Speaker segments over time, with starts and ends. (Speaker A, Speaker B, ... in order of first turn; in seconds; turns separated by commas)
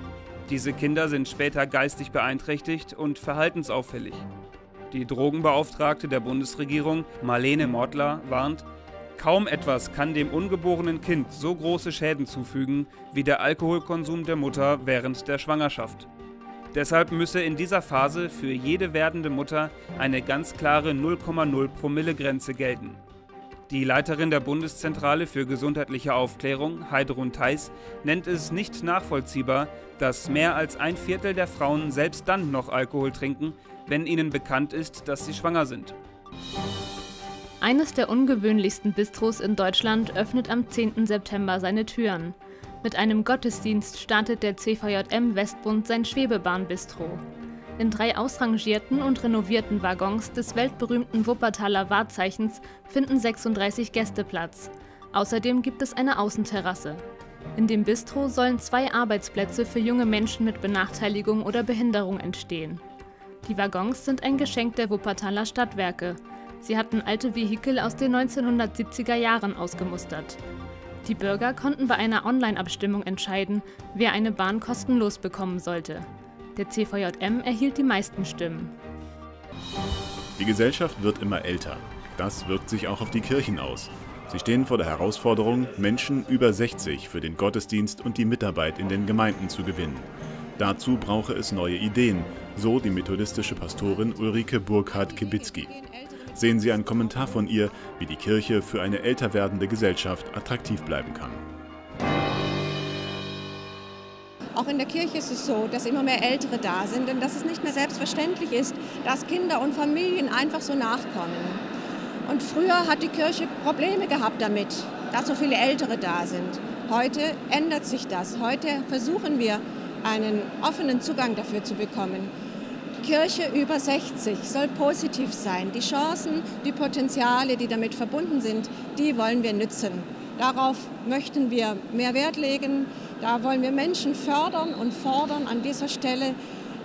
Speaker A: 0.5-4.2, Speaker A: 4.9-16.1, Speaker A: 16.7-23.0, Speaker A: 23.7-36.0, Speaker B: 37.6-47.2, Speaker B: 47.8-57.0, Speaker B: 57.5-62.8, Speaker B: 63.4-70.4, Speaker B: 71.0-78.7, Speaker C: 80.4-90.1, Speaker C: 90.6-95.7, Speaker D: 93.4-97.5, Speaker C: 96.3-101.4, Speaker D: 104.5-111.6, Speaker D: 112.2-122.3, Speaker D: 123.0-136.4